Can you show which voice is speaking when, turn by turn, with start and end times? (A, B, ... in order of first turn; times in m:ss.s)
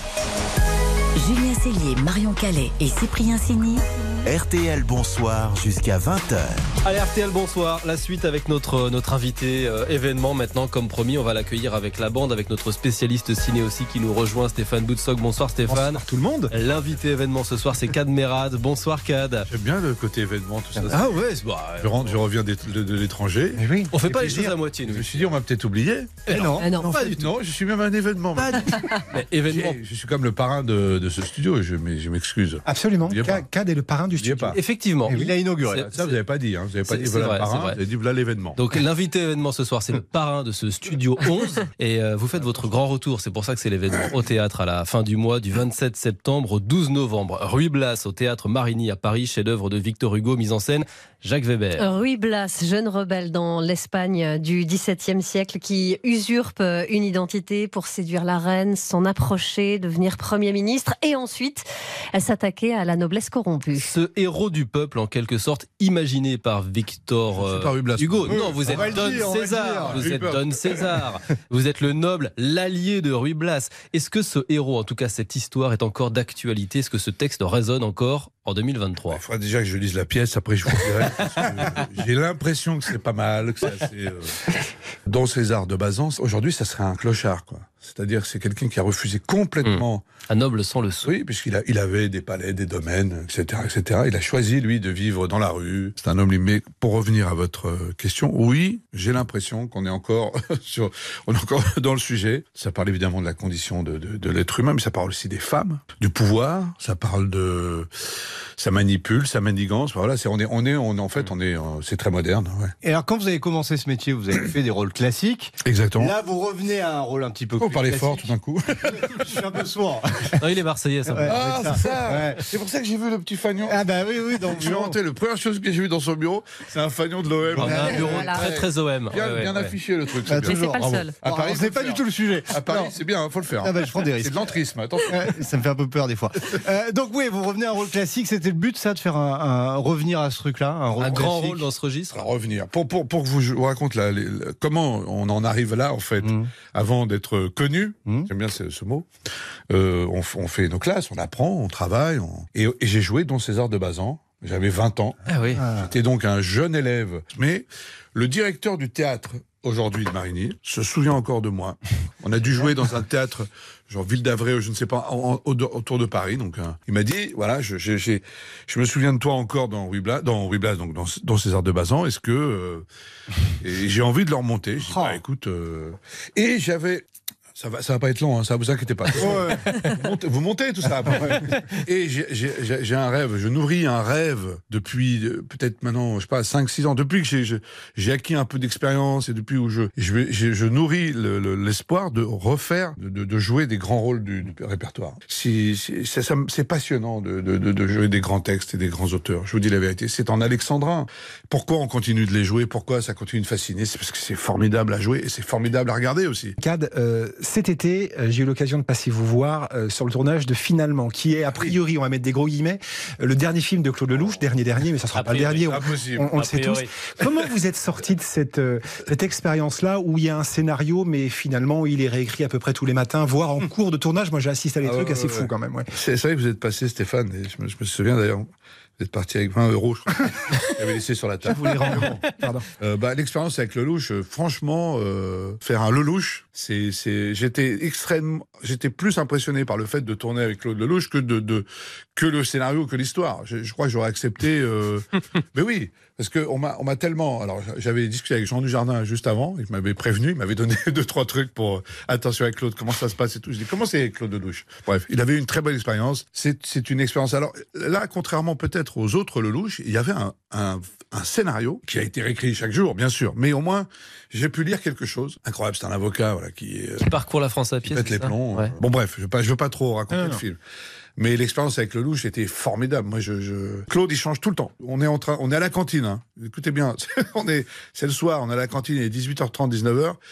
0:01.2-0:03.8 A
0:04.2-0:06.7 B
0:06.8-0:19.5 C
0:15.7-0:16.5 D
0:19.4-0:21.2 E
0:20.9-0:22.2 C
0:21.8-0:23.7 E
0:23.6-0:24.4 D
0:23.9-0:25.3 C
0:24.8-0:26.2 E
0:26.2-0:27.1 C
0:26.3-0:26.8 F
0:26.6-0:26.9 G
0:26.8-0:33.5 E
0:28.4-0:28.6 F
0:29.1-0:29.8 C
0:32.6-0:34.6 D
0:34.2-0:34.6 E
0:34.5-0:36.2 C
0:35.0-0:35.8 F
0:35.8-0:38.6 E
0:36.8-0:37.8 C
0:38.5-0:51.9 C
0:51.8-1:03.9 G
1:03.8-1:19.2 C
1:07.3-1:09.2 E
1:08.3-1:10.1 F
1:09.8-1:10.8 E
1:19.1-1:24.5 E
1:25.0-1:30.0 E
1:29.6-1:31.1 C
1:31.0-1:47.9 E
1:48.6-1:52.7 E
1:52.8-1:58.3 F
1:55.6-1:56.2 E
1:57.6-1:59.4 E
1:58.9-2:00.4 F
2:00.4-2:01.4 C
2:01.1-2:02.4 F
2:01.2-2:03.8 E
2:03.6-2:05.0 F
2:04.4-2:15.3 E
2:07.5-2:09.7 C
2:07.6-2:08.2 F
2:07.8-2:08.4 G
2:10.2-2:13.0 F
2:10.4-2:11.1 G
2:13.6-2:14.5 F
2:15.0-2:21.6 F
2:20.9-2:22.3 C
2:22.1-2:29.0 E
2:26.2-2:26.5 F
2:29.7-2:52.8 E
2:35.3-2:35.6 C
2:35.6-2:35.9 F
2:53.6-2:57.0 E
2:54.9-2:55.2 F
2:57.6-3:26.5 E
2:59.2-2:59.7 F
3:26.6-3:45.9 D
3:35.1-3:37.1 C
3:35.7-3:36.3 E
3:44.8-3:48.5 E
3:49.0-3:52.1 E
3:51.5-3:52.6 D
3:52.8-4:27.1 E
4:27.0-4:28.7 C
4:27.8-4:30.6 E
4:31.2-4:40.2 E